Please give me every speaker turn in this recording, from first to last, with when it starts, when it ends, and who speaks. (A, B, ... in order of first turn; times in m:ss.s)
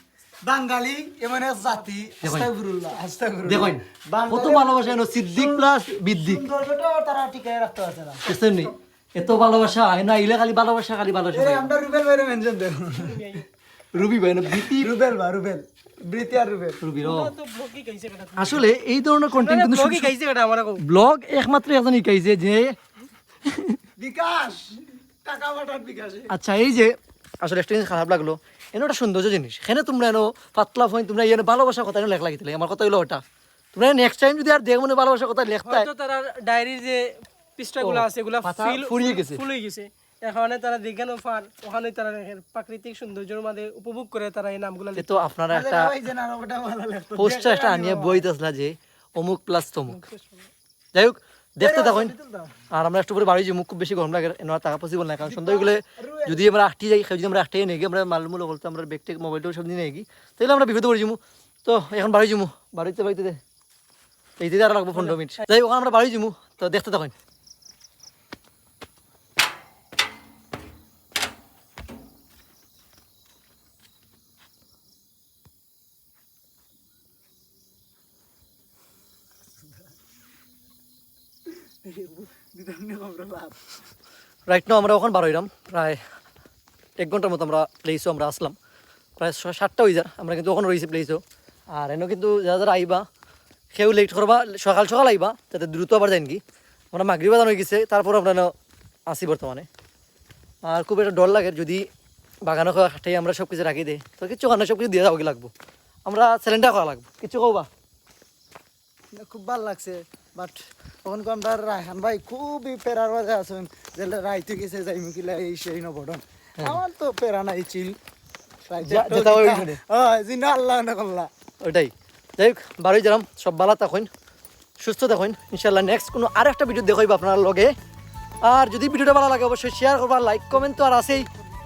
0:00.4-0:08.3 A
0:02.2-0:02.5 B
0:03.5-0:06.4 B
0:08.3-0:11.7 B
0:11.3-0:13.3 A
0:13.0-0:13.4 C
0:13.9-0:14.9 B
0:14.7-0:16.8 A
0:16.8-0:17.3 B
0:17.0-0:18.6 C
0:18.4-0:20.1 B
0:19.3-0:20.8 C
0:20.8-0:22.8 B
0:23.5-0:23.8 B
0:24.0-0:26.3 A
0:26.3-0:33.2 B
0:33.7-0:35.9 B
0:35.7-0:45.1 C
0:37.8-0:39.4 B
0:44.9-0:46.0 B
0:45.5-0:48.3 A
0:47.2-0:50.0 B
0:49.9-0:50.5 C
0:50.9-0:52.1 B
0:51.6-0:52.6 A
0:52.7-1:03.4 B
0:55.2-0:56.5 A
1:04.4-1:07.1 B
1:21.8-1:23.6 A
1:24.5-1:26.0 B
1:27.0-1:28.6 B
1:29.2-1:31.2 B
1:31.7-1:33.0 B
1:33.7-1:36.4 B
1:36.9-1:38.5 B
1:39.1-1:39.7 B
1:40.6-1:41.8 B
1:42.4-1:45.5 B
1:46.1-1:47.7 B
1:49.2-1:58.0 A
1:58.7-2:01.3 A
1:58.8-1:59.8 B
2:01.6-2:04.1 B
2:04.8-2:07.7 B
2:08.4-2:11.3 B